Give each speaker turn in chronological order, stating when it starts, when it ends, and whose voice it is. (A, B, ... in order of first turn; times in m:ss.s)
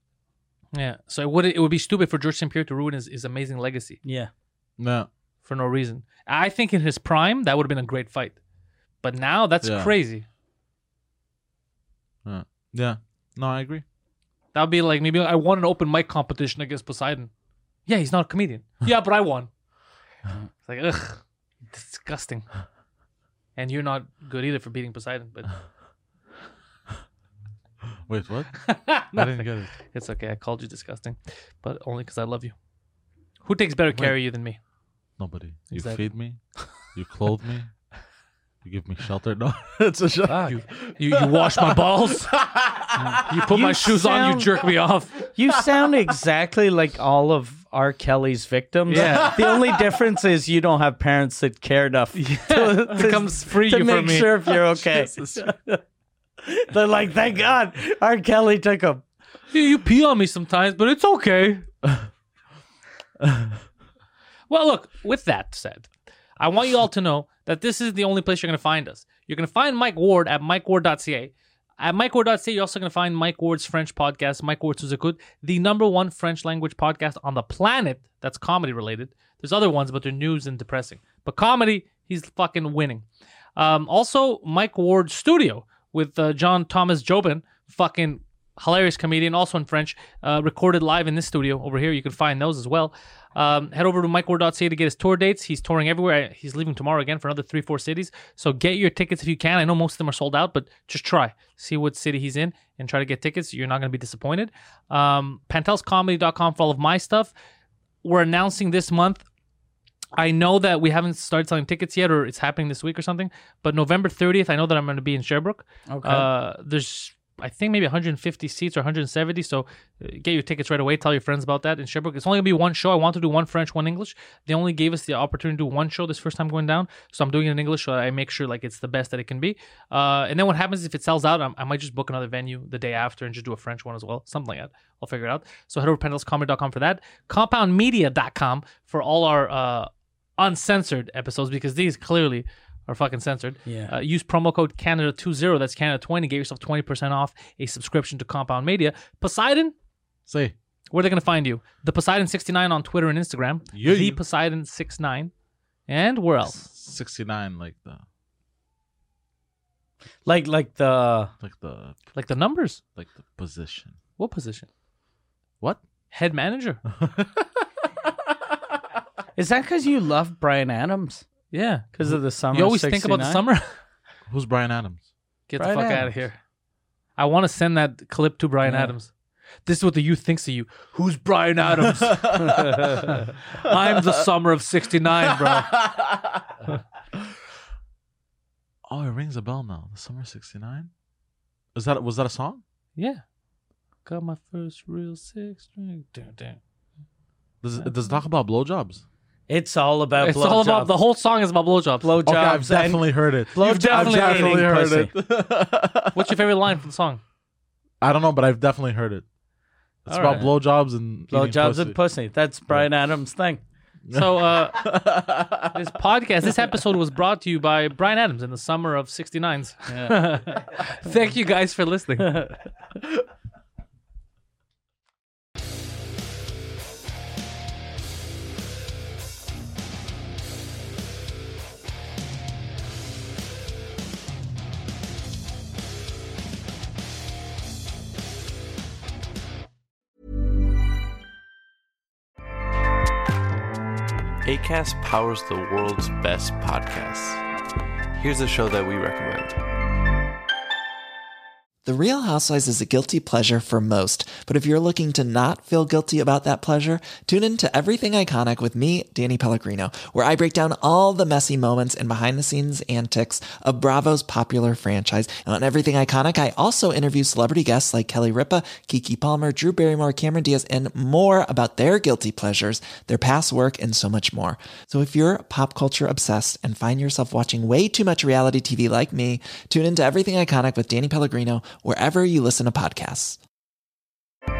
0:00.7-0:04.0 A
0:04.0-0:04.3 B
0:04.8-0:05.1 C
0:05.4-0:08.4 A
0:09.0-0:10.2 A
0:09.6-0:09.9 C
0:12.2-0:13.8 C
0:14.5-0:17.3 A
0:17.8-0:19.5 A
0:20.6-0:22.4 A
0:23.6-0:25.5 A
0:28.1-0:29.7 C
0:28.6-0:32.5 A
0:33.4-0:34.6 A
0:35.2-0:36.4 C
0:35.7-0:36.0 A
0:36.9-0:37.7 C
0:38.6-0:43.3 C
0:40.3-0:40.6 B
0:40.4-0:42.3 A
0:43.0-0:44.6 B
0:43.2-0:45.2 A
0:45.3-0:55.8 B
0:48.9-0:49.4 A
0:49.0-0:49.8 C
0:52.1-0:54.5 A
0:54.8-0:55.5 C
0:56.4-0:59.0 B
0:59.5-1:01.7 A
1:03.2-1:03.5 C
1:04.5-1:23.0 A
1:23.6-1:47.3 A
1:48.0-1:49.2 A
1:50.2-2:29.7 A
1:55.9-1:56.3 B
2:23.6-2:23.9 B
2:30.3-2:30.5 C
2:30.9-2:35.3 A
2:33.7-2:34.2 C
2:35.9-2:36.7 A
2:36.5-2:38.0 C
2:40.2-2:41.3 B
2:41.4-2:42.0 C
2:42.1-2:42.8 A
2:43.0-2:44.0 C
2:44.2-2:44.7 A
2:46.1-2:46.8 A
2:46.9-2:47.5 C
2:49.4-2:51.2 B
2:51.5-2:51.9 A
2:51.9-2:53.4 B
2:52.5-2:53.6 A
2:54.3-2:55.0 C
2:55.5-2:56.4 A
2:55.6-2:56.1 B
2:57.2-2:59.1 A
2:58.6-2:58.9 B
2:59.6-3:05.7 A
3:01.8-3:03.0 C
3:03.7-3:04.0 C
3:05.2-3:06.6 C
3:08.9-3:10.9 C
3:11.7-3:12.6 C
3:13.0-3:13.2 A
3:14.0-3:16.6 A
3:17.6-3:19.0 C
3:19.5-3:20.9 B
3:20.2-3:22.2 A
3:22.0-3:25.1 B
3:22.2-3:26.3 C
3:23.6-3:24.6 A
3:26.1-3:27.2 A
3:28.0-3:29.2 C
3:30.0-3:32.0 C
3:30.1-3:30.5 A
3:31.3-3:33.6 B
3:34.0-3:35.9 C
3:34.1-3:35.0 A
3:35.7-3:42.4 A
3:39.9-3:40.4 B
3:42.2-3:42.6 B
4:04.4-4:07.4 D
4:08.2-4:09.6 D
4:11.8-4:43.4 E